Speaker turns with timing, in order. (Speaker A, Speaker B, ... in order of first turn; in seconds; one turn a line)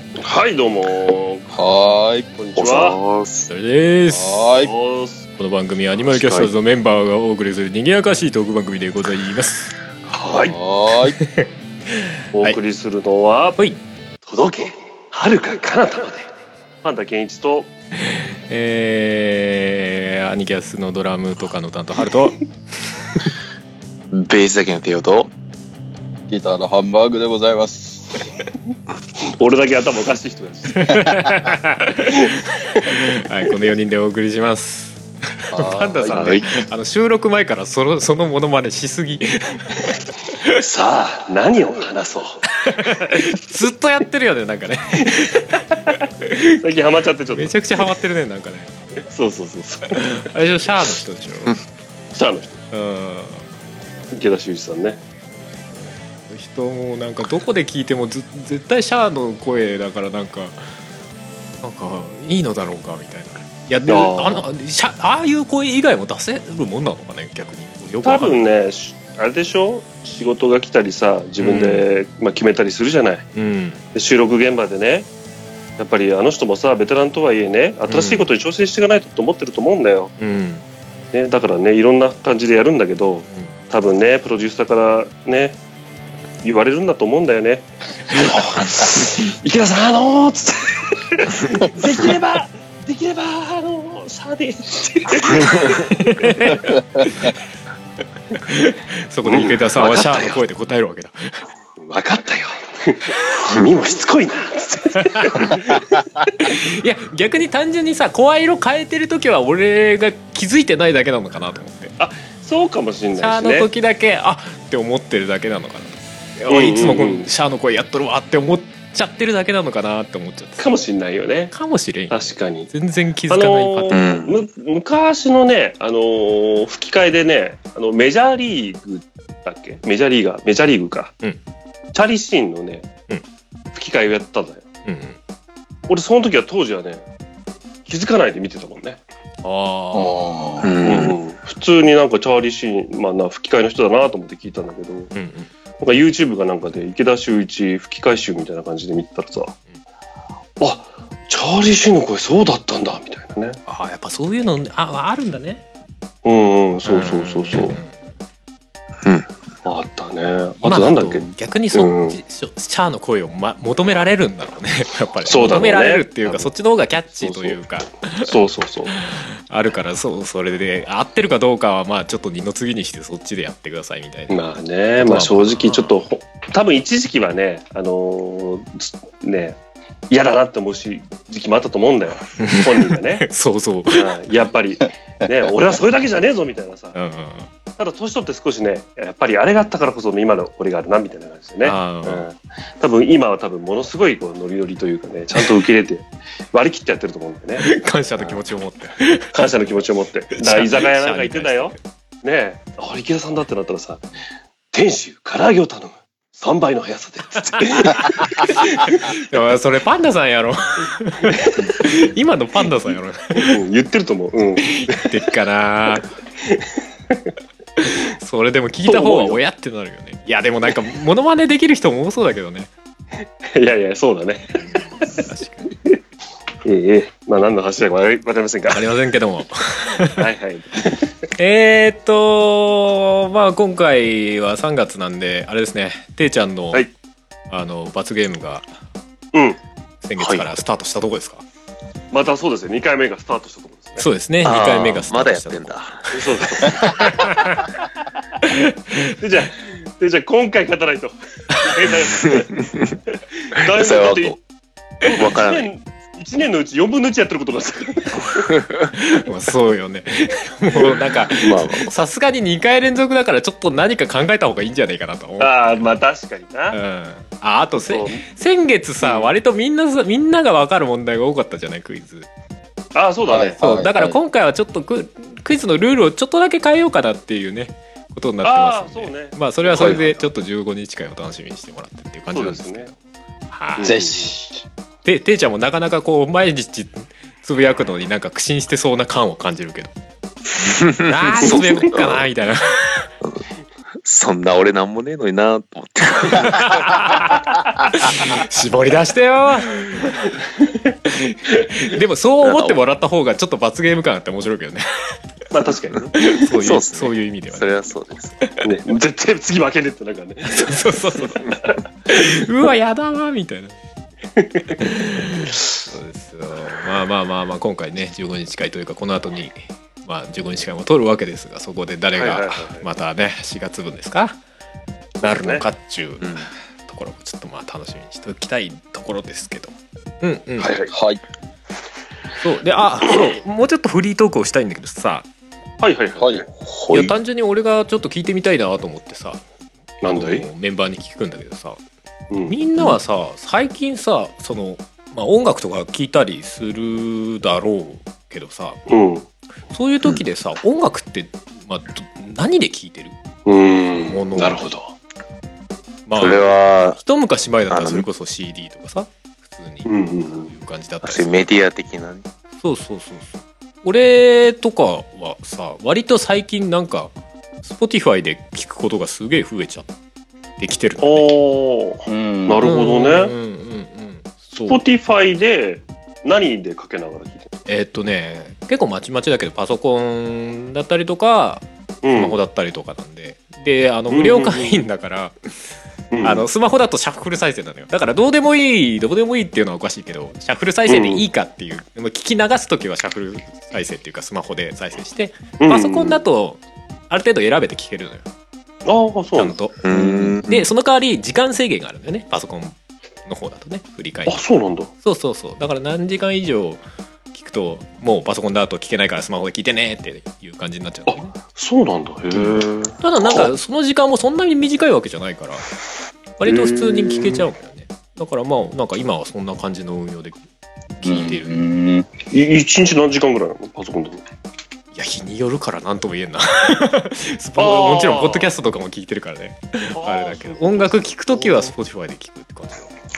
Speaker A: 0.2-1.5
Speaker B: 1.5-2.3
Speaker A: 2.4-3.0
Speaker C: 2.5-3.5
Speaker D: 3.5-4.5
Speaker B: 4.1-4.7
Speaker A: 4.6-5.2
Speaker D: 5.4-9.7
Speaker A: 6.1-6.5
Speaker A: 10.1-10.6
Speaker B: 10.3-11.2
Speaker D: 11.2-12.6
Speaker A: 12.3-13.6
Speaker A: 14.3-16.3
Speaker A: 16.8-17.7
Speaker D: 18.0-23.3
Speaker C: 24.1-25.3
Speaker B: 26.3-28.2
Speaker A: 29.2-31.2
Speaker D: 30.8-40.4
Speaker A: 32.0-33.0
Speaker B: 35.5-36.4
Speaker C: 36.1-36.5
Speaker A: 40.4-43.2
Speaker D: 42.6-46.6
Speaker A: 46.6-47.9
Speaker D: 47.3-48.7
Speaker A: 49.1-50.3
Speaker D: 49.9-51.6
Speaker A: 52.1-52.6
Speaker D: 52.7-53.5
Speaker A: 54.1-55.0
Speaker D: 56.3-60.6
Speaker D: 61.6-68.4
Speaker A: 63.9-64.5
Speaker A: 68.0-73.3
Speaker D: 71.4-71.8
Speaker D: 73.3-73.8
Speaker A: 73.9-75.1
Speaker A: 75.8-80.1
Speaker D: 77.9-78.3
Speaker D: 80.2-80.7
Speaker A: 81.1-85.6
Speaker A: 86.4-95.8
Speaker D: 95.6-97.3
Speaker D: 98.4-101.3
Speaker A: 99.2-100.4
Speaker A: 101.8-105.8
Speaker D: 105.1-105.6
Speaker D: 106.3-111.9
Speaker A: 112.0-113.7
Speaker D: 113.2-120.6
Speaker A: 116.5-117.3
Speaker A: 120.6-121.5
Speaker D: 121.5-124.1
Speaker A: 122.1-122.7
Speaker A: 123.3-131.1
Speaker C: 123.9-124.5
Speaker A: 131.9-132.9
Speaker A: 133.7-134.7
Speaker D: 134.9-135.2
Speaker A: 135.9-137.0
Speaker A: 137.9-139.0
Speaker D: 139.4-140.3
Speaker B: 139.9-140.7
Speaker C: 140.6-141.2
Speaker A: 140.8-145.1
Speaker D: 145.1-145.5
Speaker A: 145.8-149.6
Speaker A: 150.6-153.6
Speaker D: 153.7-155.6
Speaker A: 156.2-157.8
Speaker D: 156.9-158.0
Speaker C: 159.0-159.3
Speaker A: 159.7-162.2
Speaker D: 160.6-168.3
Speaker A: 165.2-166.5
Speaker A: 167.2-167.6
Speaker A: 168.2-169.0
Speaker D: 168.9-174.4
Speaker A: 174.3-179.6
Speaker D: 175.0-175.9
Speaker A: 180.1-183.3
Speaker D: 182.4-184.0
Speaker A: 183.9-187.0
Speaker D: 186.9-187.5
Speaker A: 187.8-198.4
Speaker D: 191.6-192.3
Speaker D: 197.6-199.3
Speaker A: 199.3-204.0
Speaker D: 200.4-201.8
Speaker A: 204.7-209.2
Speaker D: 207.5-208.4
Speaker D: 209.3-213.6
Speaker A: 211.4-211.7
Speaker A: 213.4-215.2
Speaker D: 214.7-216.1
Speaker A: 216.4-217.2
Speaker D: 217.8-222.7
Speaker A: 218.9-219.4
Speaker A: 223.4-225.1
Speaker D: 224.6-225.7
Speaker A: 225.7-226.0
Speaker A: 226.7-228.9
Speaker D: 228.7-230.2
Speaker A: 230.2-231.1
Speaker D: 231.4-236.9
Speaker D: 237.5-238.7
Speaker A: 239.3-239.6
Speaker D: 240.0-241.4
Speaker C: 240.2-240.6
Speaker A: 242.1-244.1
Speaker D: 244.0-245.7
Speaker C: 244.4-246.1
Speaker A: 246.1-247.2
Speaker D: 246.6-247.7
Speaker D: 248.4-249.1
Speaker A: 249.2-252.6
Speaker C: 252.2-252.9
Speaker A: 253.4-254.4
Speaker C: 253.6-254.4
Speaker A: 255.0-258.6
Speaker C: 255.2-255.7
Speaker D: 258.9-265.9
Speaker C: 261.4-261.9
Speaker A: 265.4-266.8
Speaker D: 266.7-272.3
Speaker A: 267.8-268.2
Speaker A: 269.0-269.3
Speaker A: 272.9-273.6
Speaker B: 273.3-274.2
Speaker D: 273.6-283.0
Speaker A: 278.4-280.2
Speaker B: 279.8-280.1
Speaker A: 282.3-282.9
Speaker D: 283.5-284.0
Speaker A: 283.8-284.3
Speaker B: 283.8-284.6
Speaker D: 285.1-289.9
Speaker C: 290.6-292.3
Speaker D: 291.1-293.1
Speaker C: 294.0-297.0
Speaker D: 296.5-300.3
Speaker A: 300.6-300.9
Speaker D: 301.1-305.2
Speaker C: 302.4-302.8
Speaker A: 305.5-306.1
Speaker C: 306.0-308.4
Speaker D: 306.2-307.8
Speaker A: 308.6-311.8
Speaker D: 310.5-311.5
Speaker D: 312.1-313.8
Speaker A: 314.4-314.9
Speaker D: 314.8-324.4
Speaker A: 322.2-322.9
Speaker D: 325.2-330.7
Speaker A: 325.2-325.6
Speaker C: 326.2-326.5
Speaker A: 330.6-330.9
Speaker B: 330.9-331.2
Speaker D: 332.4-335.3
Speaker A: 335.8-336.5
Speaker B: 336.2-336.5
Speaker C: 336.6-337.2
Speaker D: 336.9-339.4
Speaker A: 340.0-340.5
Speaker D: 340.1-341.8
Speaker A: 342.3-342.6
Speaker D: 342.5-348.8
Speaker A: 348.9-349.3
Speaker D: 349.7-353.1
Speaker A: 353.5-354.9
Speaker D: 354.1-354.6
Speaker D: 356.1-361.5
Speaker C: 356.2-357.0
Speaker C: 357.7-358.1
Speaker A: 359.9-360.5
Speaker C: 361.0-362.3
Speaker D: 362.6-367.1
Speaker D: 367.6-369.9
Speaker D: 370.6-371.3
Speaker A: 371.0-373.3
Speaker B: 372.1-372.6
Speaker D: 372.6-374.8
Speaker A: 374.7-377.5
Speaker D: 377.7-385.4
Speaker A: 382.0-382.4
Speaker A: 384.1-384.8
Speaker A: 386.1-386.5
Speaker D: 386.2-398.3
Speaker A: 390.9-391.2
Speaker A: 395.6-396.2
Speaker A: 398.9-399.6
Speaker D: 399.4-399.8
Speaker C: 399.8-400.7
Speaker B: 399.9-400.4
Speaker D: 400.4-404.4
Speaker A: 404.3-404.9
Speaker D: 405.0-406.8
Speaker D: 407.3-411.3
Speaker A: 411.1-413.5
Speaker D: 412.3-415.7
Speaker D: 416.4-420.4
Speaker A: 416.4-417.5
Speaker D: 421.0-421.6
Speaker B: 421.0-422.1
Speaker A: 422.2-424.2
Speaker D: 424.9-432.9
Speaker A: 427.6-428.5
Speaker A: 429.9-431.7